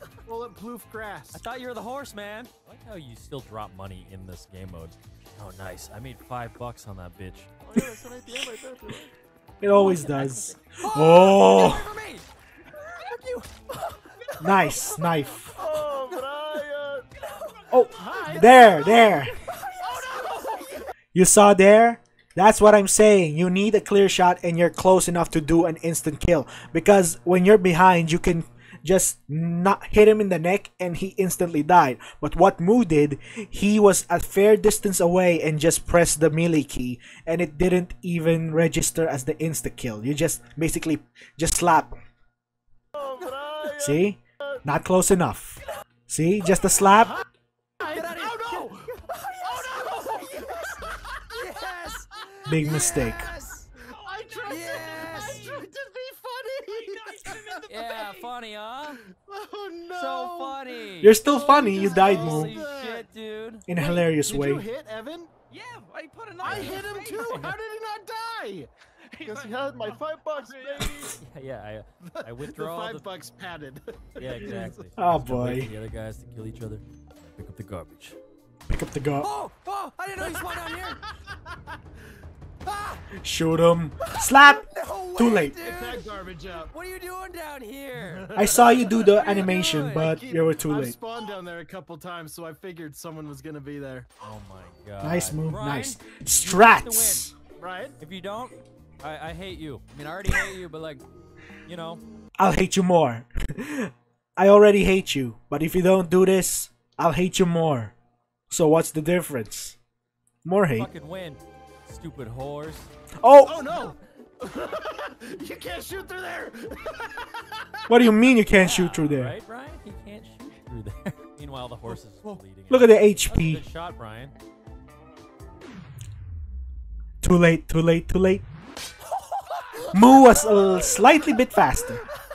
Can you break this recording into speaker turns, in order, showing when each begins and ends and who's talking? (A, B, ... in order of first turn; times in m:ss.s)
0:00.2-0:01.4 A
0:01.3-0:07.5 B
0:07.6-0:09.1 C
0:09.6-0:11.9 D
0:09.7-0:12.3 B
0:12.8-0:15.0 B
0:14.4-0:15.5 D
0:15.6-0:16.1 B
0:15.6-0:17.1 C
0:17.2-0:20.8 B
0:17.7-0:19.3 D
0:17.9-0:18.6 A
0:20.0-0:20.6 A
0:21.1-0:41.9 D
0:42.9-0:44.6 C
0:43.8-0:47.2 D
0:47.8-0:48.9 A
0:47.8-0:53.6 B
0:49.6-0:50.3 A
0:52.5-0:53.3 D
0:53.8-0:55.6 E
0:53.8-0:57.6 A
0:54.4-0:55.6 B
0:56.7-0:58.3 E
0:57.7-0:59.0 B
0:59.1-1:00.6 A
0:59.9-1:03.7 B
1:01.0-1:02.6 D
1:01.4-1:03.1 A
1:03.7-1:04.6 D
1:03.7-1:05.3 A
1:05.5-1:07.4 E
1:06.4-1:08.7 A
1:06.4-1:07.6 B
1:09.1-1:11.1 E
1:09.2-1:11.2 C
1:11.1-1:13.1 B
1:12.0-1:14.9 A
1:14.2-1:18.2 B
1:15.0-1:15.7 D
1:18.7-1:19.3 D
1:19.2-1:21.0 B
1:21.0-1:21.8 A
1:22.6-1:23.1 B
1:23.2-1:25.6 D
1:24.0-1:26.1 B
1:25.6-1:26.7 A
1:26.7-1:30.2 B
1:28.0-1:34.1 A
1:28.3-1:31.0 D
1:34.2-1:37.3 B
1:35.0-1:37.3 D
1:37.6-1:38.0 A
1:38.0-1:41.0 B
1:41.6-1:42.0 B
1:42.4-1:47.9 D
1:48.5-1:49.8 D
1:50.4-1:50.9 D
1:50.7-1:52.9 B
1:53.2-1:53.7 D
1:53.4-1:57.9 A
1:57.9-1:59.4 D
1:58.5-2:04.3 B
2:02.7-2:03.6 D
2:07.2-2:08.4 D
2:09.2-2:10.0 B
2:09.9-2:12.0 D